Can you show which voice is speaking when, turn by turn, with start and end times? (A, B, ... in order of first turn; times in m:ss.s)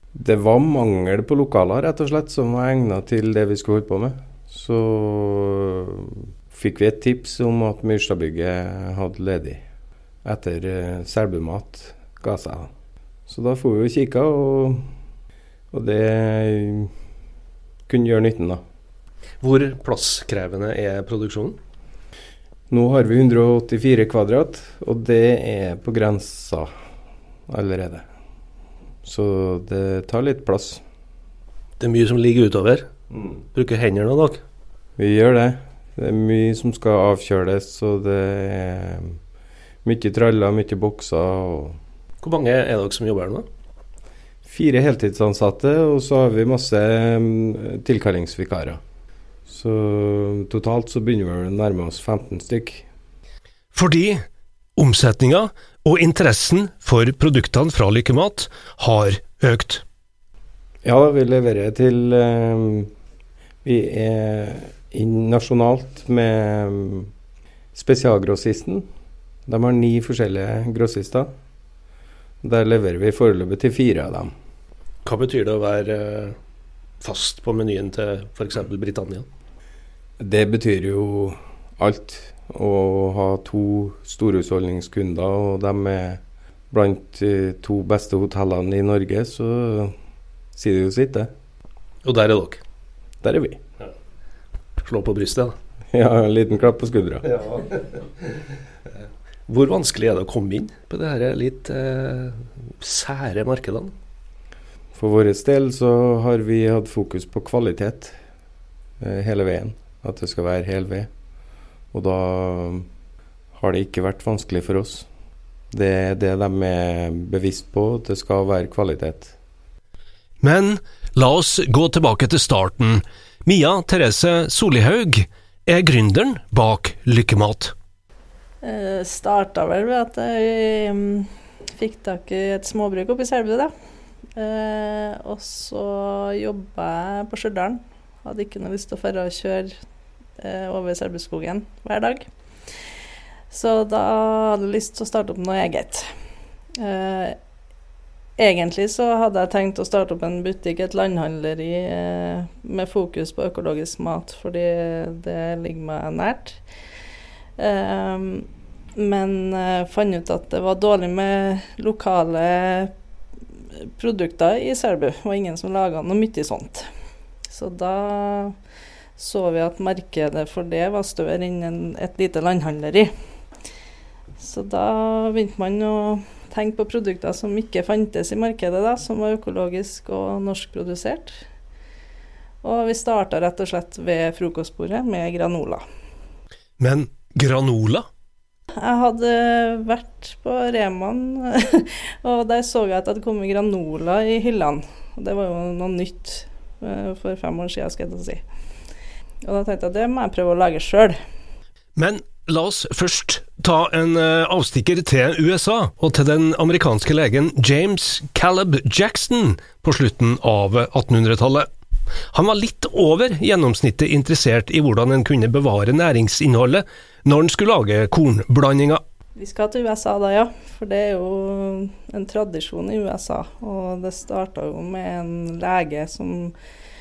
0:00.1-0:09.6 A
0:10.2-0:12.7 A
0:13.3-0:14.8 A
0:15.7-0:16.9 A
0:17.9-0:18.6 A
0:19.4-0:21.6 B
0:22.7-0:26.7 A
0:27.5-0:28.0 A
0:29.0-0:30.8 A
0:31.8-0:32.8 B
0:33.5-0:34.4 B
0:35.0-0:39.2 A
0:39.8-0:41.8 A
0:42.2-0:43.4 B
0:44.4-0:48.8 A
0:49.4-0:52.8 A
0:53.7-0:54.2 B
0:54.8-0:59.8 B
1:00.8-1:02.9 A
1:03.6-1:07.1 A
1:07.7-1:08.9 A
1:09.5-1:11.3 A
1:12.4-1:14.3 A
1:15.0-1:16.4 B
1:17.0-1:19.3 B
1:20.2-1:29.9 A
1:30.6-1:31.3 A
1:32.0-1:32.6 B
1:33.2-1:33.6 A
1:34.8-1:35.6 B
1:35.9-1:37.3 A
1:37.3-1:38.2 B
1:39.5-1:43.9 B
1:44.9-1:48.2 A
1:49.0-1:51.1 A
1:51.9-1:52.9 A
1:53.5-1:55.1 A
1:55.7-1:59.3 A
2:00.4-2:07.7 B
2:08.6-2:13.7 C
2:14.3-2:19.7 C
2:20.4-2:22.3 C
2:23.5-2:26.1 C
2:26.8-2:27.4 C
2:28.4-2:36.6 C
2:37.6-2:42.9 C
2:43.8-2:46.9 C
2:47.5-2:48.6 C
2:49.2-2:53.1 C
2:54.4-3:01.4 C
3:02.6-3:05.8 C
3:06.8-3:08.0 B
3:08.8-3:18.4 C
3:19.4-3:21.2 C
3:22.0-3:31.7 B
3:32.3-3:39.0 B
3:39.4-3:46.5 C